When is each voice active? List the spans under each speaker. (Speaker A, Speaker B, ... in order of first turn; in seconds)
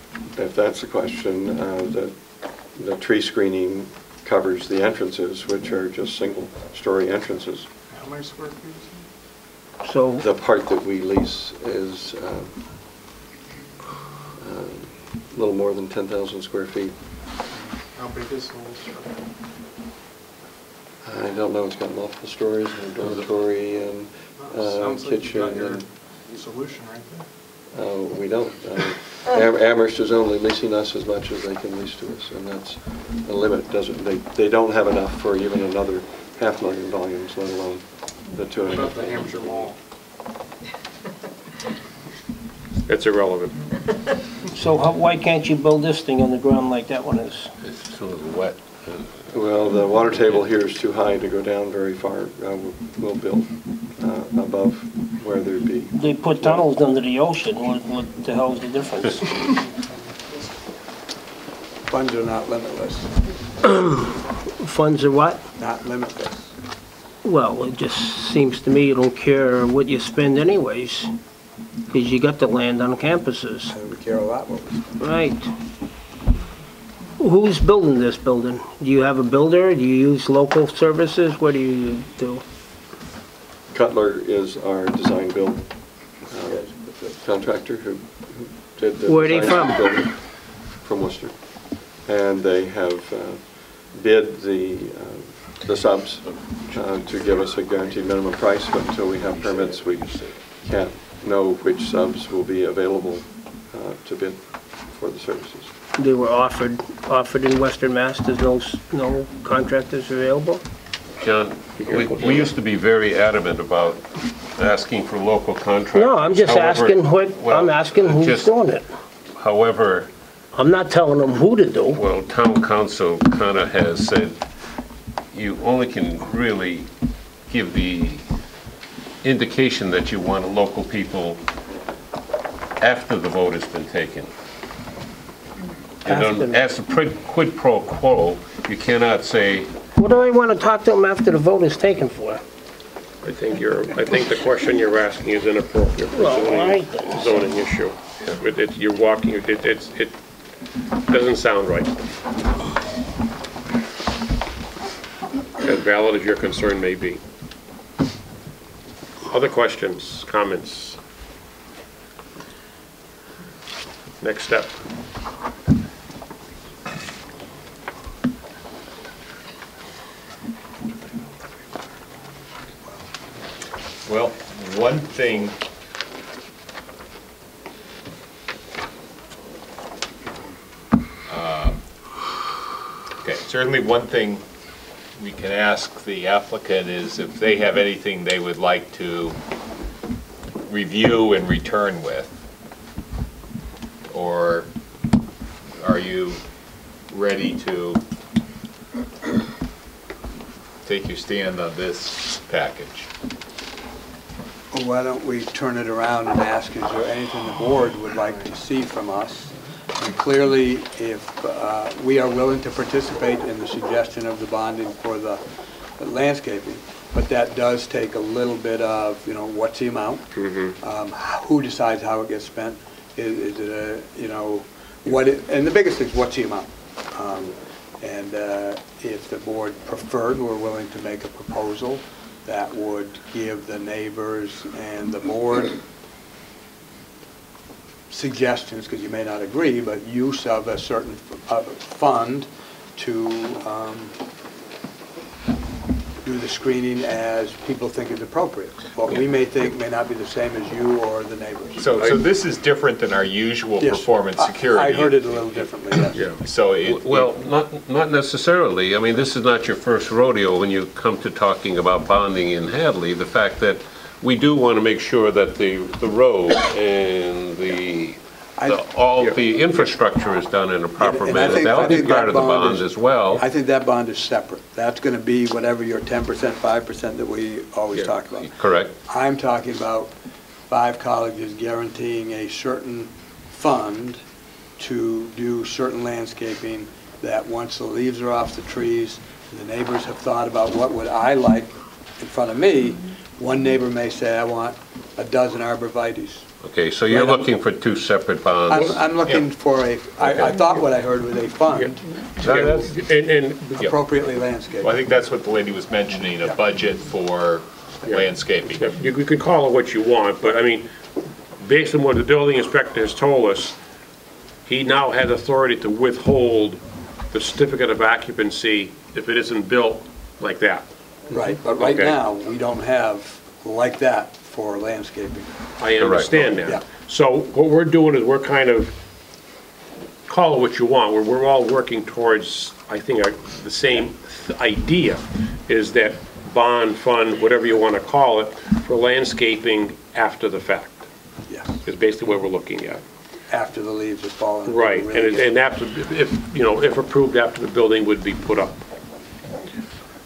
Speaker A: 0.3-7.7, 10.2-12.5, 14.4-16.9, 21.0-25.9, 27.7-39.4, 49.3-56.7, 83.7-105.7
Speaker B: 7.9-9.0, 17.5-19.3, 24.4-27.2, 38.6-39.8
Speaker C: 9.8-10.2, 44.5-47.5, 55.9-59.5, 63.6-64.0, 64.6-65.4, 67.2-71.1, 71.9-73.7, 75.0-75.5, 77.2-82.4, 89.1-90.0, 106.0-110.6, 115.9-118.8, 120.5-122.0, 136.1-136.6, 139.9-142.4, 146.1-147.6
Speaker D: 42.9-43.6, 111.8-112.5, 143.2-150.1, 151.1-151.9, 155.6-157.2, 159.3-161.0, 164.2-164.8, 220.3-220.8, 256.1-256.4, 301.7-303.9, 308.1-310.9, 311.6-313.8, 314.7-320.8, 321.8-322.1, 325.8-328.9, 330.3-341.0, 341.8-343.0, 344.6-348.8
Speaker E: 47.6-49.3, 111.2-118.5, 119.3-120.1, 121.9-124.4, 125.3-126.9, 127.5-128.2, 129.2-131.4, 132.8-134.3, 136.0-139.7, 256.8-273.4, 278.4-278.9, 296.6-299.0, 302.4-302.8, 326.0-326.5
Speaker F: 61.9-63.2, 65.6-66.5, 73.7-75.0, 86.5-87.1, 204.7-215.4, 216.0-235.8, 238.1-244.1, 246.2-251.8, 253.8-256.2, 268.6-268.8, 271.0-278.5, 279.0-280.1, 280.7-284.2, 284.8-296.4, 297.1-297.5, 298.7-302.9, 303.8-304.9, 321.3-325.6, 341.5-341.7, 343.5-345.5
Speaker G: 174.0-175.6, 181.3-181.8, 183.2-184.4, 185.2-189.4, 190.6-192.3, 194.1-194.7, 195.8-196.4, 197.1-198.0, 200.8-203.1, 251.8-255.6, 256.4-257.3, 304.8-309.0